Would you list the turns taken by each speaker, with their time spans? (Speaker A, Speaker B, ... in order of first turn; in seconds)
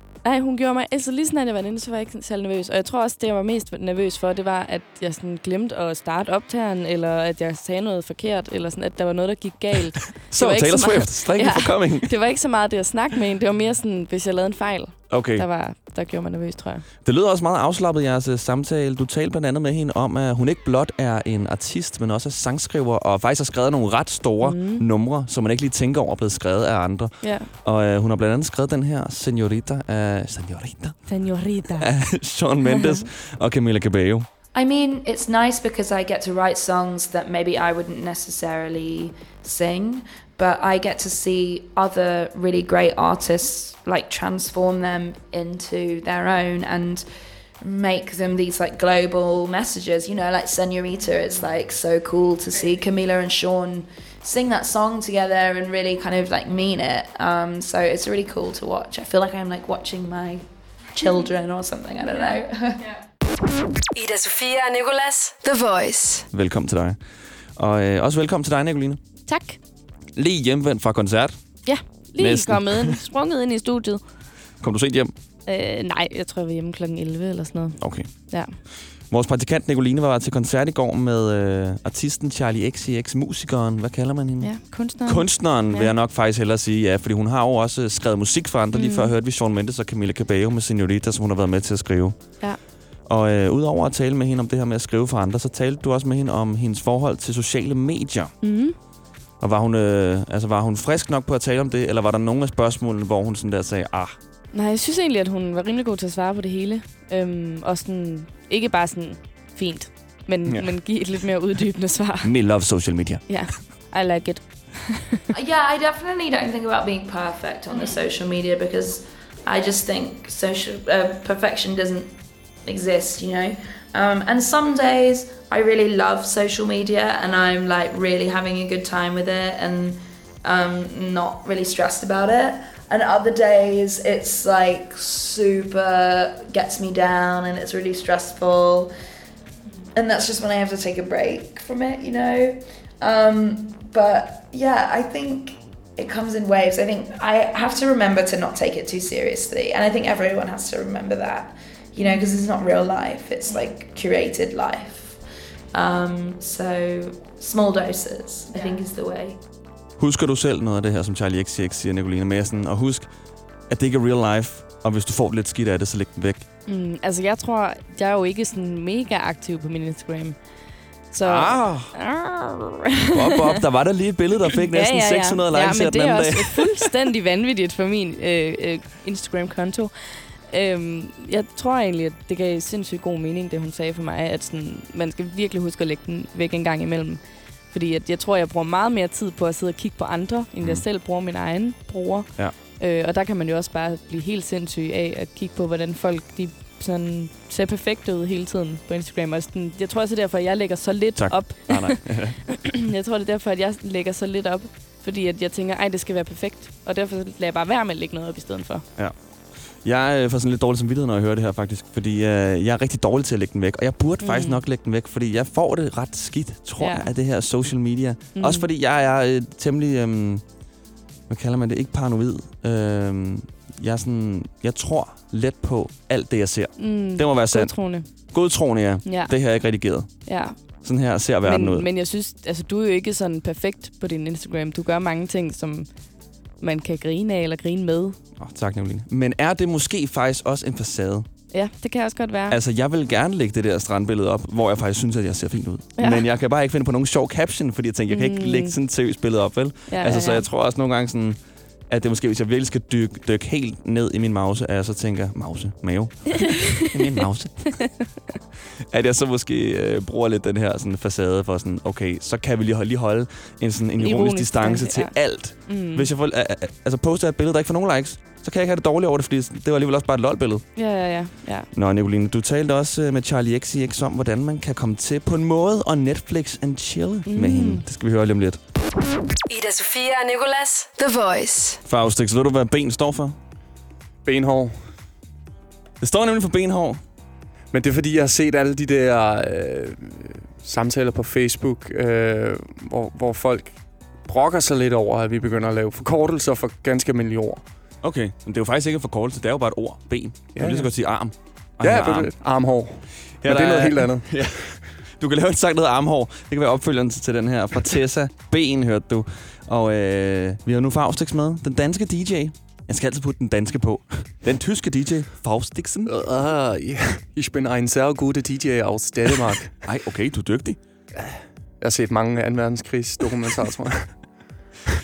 Speaker A: 0.2-16.8, 24.4-24.8, 27.2-27.5, 31.1-31.9, 32.6-33.0, 69.3-69.6, 71.7-74.0, 75.5-78.5, 84.4-85.9, 88.7-89.1, 98.4-98.8, 104.5-112.3, 113.3-115.2, 166.7-170.4, 171.1-173.6, 174.6-208.8, 214.2-214.6, 216.8-217.1, 218.3-218.7, 226.8-228.1, 229.0-229.3, 230.2-230.6, 231.4-235.9, 236.6-238.2, 241.5-242.6, 246.0-246.2, 248.1-248.8, 249.9-250.5, 256.4-256.9, 264.0-265.1, 265.6-266.1, 270.8-271.7, 277.2-277.8
Speaker B: 10.3-12.1, 15.1-15.4, 17.0-31.0, 31.7-34.3, 66.3-67.0, 67.6-69.0, 70.1-71.4, 72.2-73.0, 74.6-75.1, 77.8-78.1, 79.1-84.5, 85.0-92.2, 93.1-98.3, 99.4-104.2, 112.2-113.2, 160.0-163.1, 163.7-166.4, 171.2-171.9, 173.1-176.9, 201.2-202.4, 209.8-220.4, 221.3-227.7, 228.3-230.1, 230.8-231.9, 238.4-241.3, 242.5-251.4, 251.9-257.9, 258.9-270.6, 271.7-278.6, 281.8-283.4, 286.0-287.0, 298.0-302.3, 303.4-316.1, 319.8-320.8
Speaker C: 34.5-47.0, 47.6-60.4, 60.9-62.9, 115.3-122.1, 122.6-138.9, 139.9-155.2, 155.7-159.4
Speaker D: 63.9-66.3, 279.5-281.8
Speaker E: 284.2-284.8, 287.7-297.6, 300.5-300.9, 301.8-304.3, 316.1-319.7, 321.1-324.1